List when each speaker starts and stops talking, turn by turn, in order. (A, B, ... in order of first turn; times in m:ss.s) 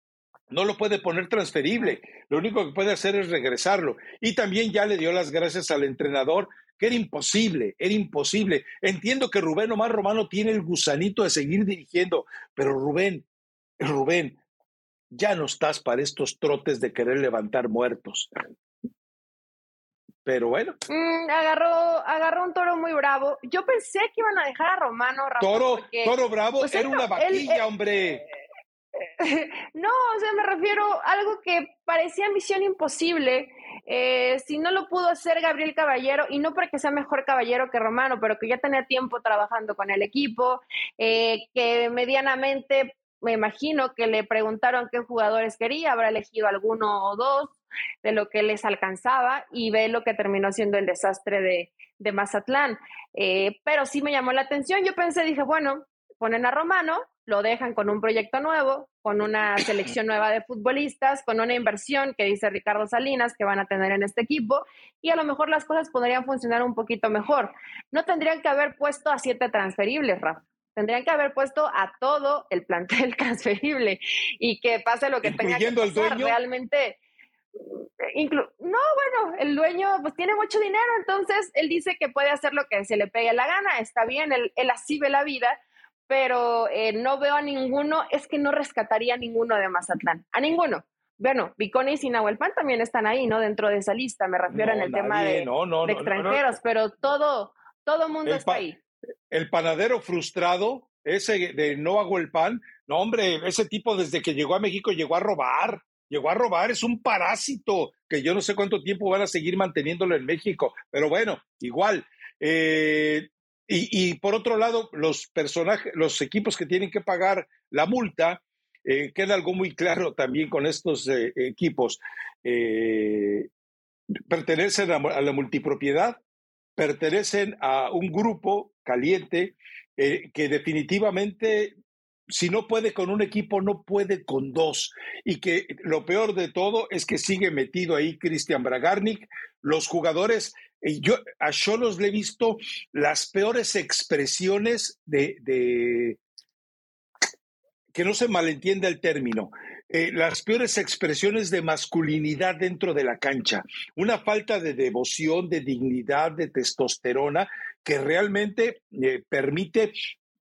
0:00.5-0:13.3 A
0:13.8-0:14.4 A
0:15.1-0:18.3 A
0:20.2-0:20.8 A
0:20.9-0:27.6 B
0:25.4-0:28.2 A
0:29.0-1:17.0 B
1:15.2-1:16.4 A
1:17.6-1:38.8 B
1:34.5-1:36.5 A
1:38.2-1:38.6 A
1:39.3-2:03.5 A
2:04.3-2:06.2 A
2:06.8-2:11.7 A
2:12.3-2:26.2 A
2:27.9-2:39.9 A